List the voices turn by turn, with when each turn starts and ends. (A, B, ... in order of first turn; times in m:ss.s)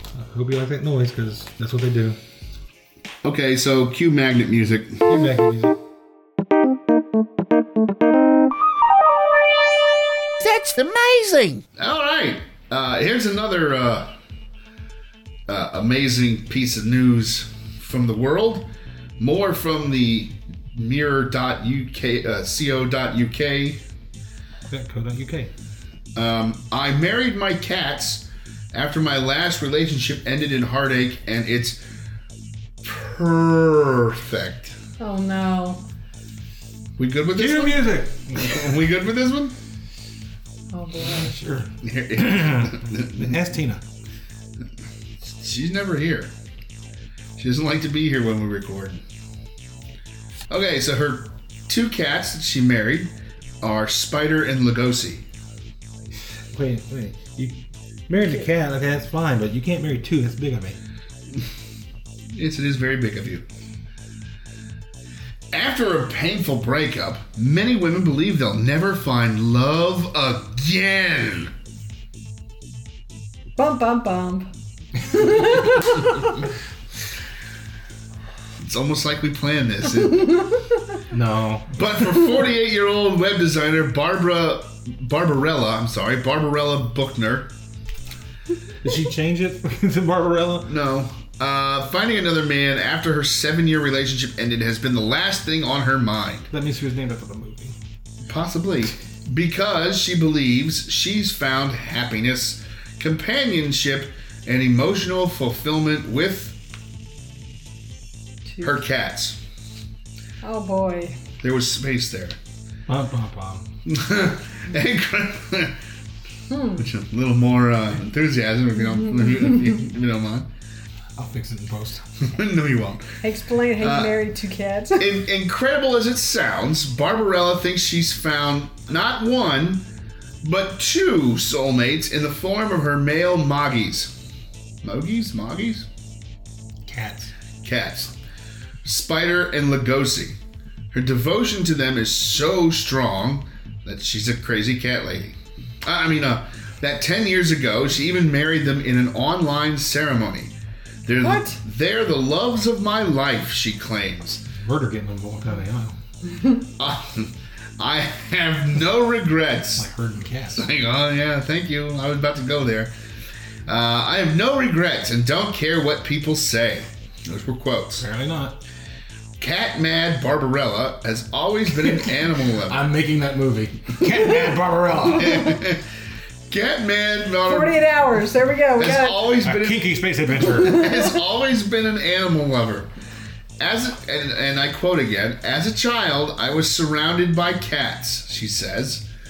0:00.1-0:02.2 A
0:03.2-0:05.1 B
0:05.1-0:05.8 A
0:10.4-0:14.1 B
0:15.5-0:23.8 B
0:24.7-0:25.5 A
0:26.2-0:31.8 B
0:32.8-0:34.8 B
0:35.0-0:35.8 C
0:37.0-0:39.6 B
0:37.3-0:38.7 A
0:40.7-0:41.3 C
0:41.1-0:43.8 A
0:41.8-0:43.4 B
0:45.2-0:46.3 B
0:47.4-0:49.0 B
0:50.5-0:55.2 B
0:56.5-1:00.8 A
1:02.3-1:03.4 B
1:05.5-1:11.5 B
1:13.6-1:14.5 C
1:15.0-1:16.4 C
1:18.6-1:20.5 B
1:21.1-1:21.9 A
1:21.7-1:27.5 B
1:28.8-1:30.7 A
1:30.6-1:36.5 B
1:36.5-1:37.8 A
1:38.3-1:46.6 B
1:48.6-1:49.4 B
1:50.4-1:51.2 C
1:51.4-1:52.4 B
1:52.9-1:53.7 A
1:53.9-1:55.8 B
1:56.5-1:56.8 C
1:56.8-2:00.5 B
2:01.2-2:02.0 A
2:02.2-2:03.2 B
2:03.2-2:05.1 C
2:03.8-2:04.2 B
2:05.0-2:09.8 B
2:10.4-2:14.1 B
2:14.8-2:15.9 B
2:16.8-2:17.3 A
2:17.6-2:18.1 B
2:18.8-2:20.4 B
2:20.9-2:30.5 B
2:31.1-2:34.4 B
2:31.2-2:31.6 C
2:34.6-2:36.0 A
2:36.8-2:39.9 B
2:39.8-2:40.7 A
2:40.6-2:42.9 B
2:43.7-2:48.0 B
2:48.0-2:48.6 A
2:49.4-2:52.9 B
2:51.9-2:55.6 A
2:55.1-2:55.9 B
2:56.5-2:57.8 B
2:57.5-2:59.3 C
2:58.8-3:00.0 B
2:59.4-3:00.9 A
3:00.5-3:02.9 B
3:03.6-3:09.1 B